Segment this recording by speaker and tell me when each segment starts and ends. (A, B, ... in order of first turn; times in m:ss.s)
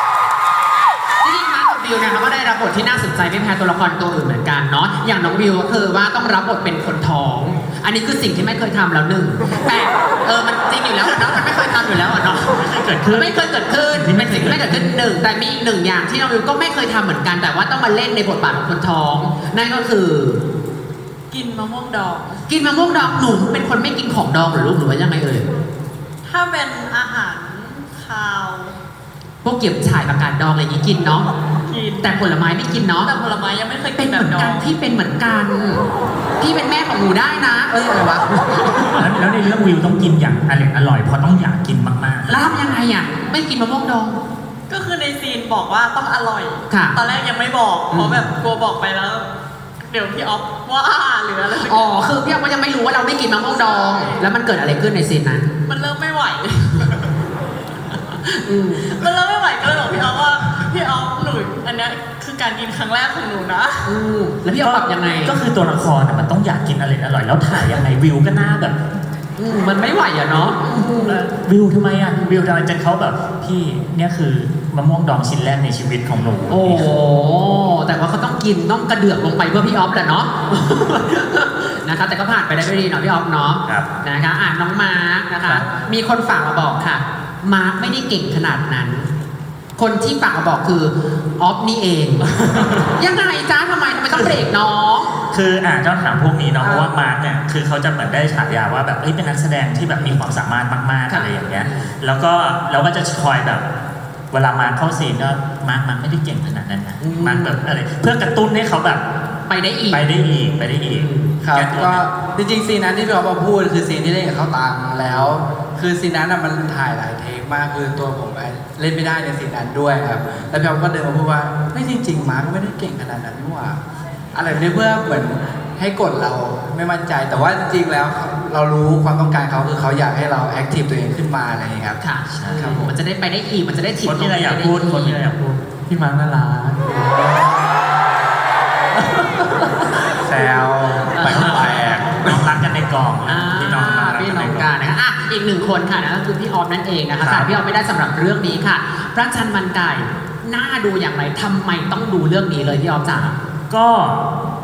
0:01.2-0:20.4 A
0:12.5-0:13.4 B
0:13.9-0:15.0 B
0:21.3-0:22.4 C
0:22.5-0:25.5 A
0:26.3-0:28.8 C
0:29.4-0:31.3 A
0:31.6-0:32.3 C
0:32.0-0:33.1 A
0:33.0-0:34.7 C
0:34.0-0:35.8 A
0:36.4-0:38.9 A
0:39.0-0:42.4 B
0:42.3-0:44.2 A
0:44.7-0:49.3 C
0:46.7-0:47.0 A
0:47.9-0:48.3 A
0:49.9-0:52.0 C
0:51.6-0:55.5 A
0:53.4-0:54.1 C
0:55.7-0:57.0 C
0:58.4-0:58.9 A
0:58.8-1:03.9 C
1:03.9-1:05.4 A
1:04.6-1:08.8 B
1:09.4-1:11.2 A
1:11.0-1:16.9 B
1:16.5-1:29.1 A
1:29.8-1:32.3 A
1:32.8-1:35.1 A
1:35.3-1:43.6 B
1:36.6-1:36.9 D
1:41.1-1:41.9 A
1:44.3-1:49.0 B
1:47.0-1:47.6 A
1:49.5-1:50.0 A
1:49.9-1:52.0 B
1:50.9-1:51.3 A
1:51.4-2:03.8 D
2:04.4-2:12.9 D
2:12.0-2:15.2 A
2:12.3-2:12.8 B
2:14.0-2:15.6 B
2:15.9-2:17.0 E
2:17.1-2:17.6 D
2:19.2-2:19.9 E
2:20.2-2:22.3 D
2:21.1-2:21.7 A
2:21.2-2:24.7 B
2:23.3-2:33.4 A
2:27.2-2:27.5 B
2:33.7-2:34.2 B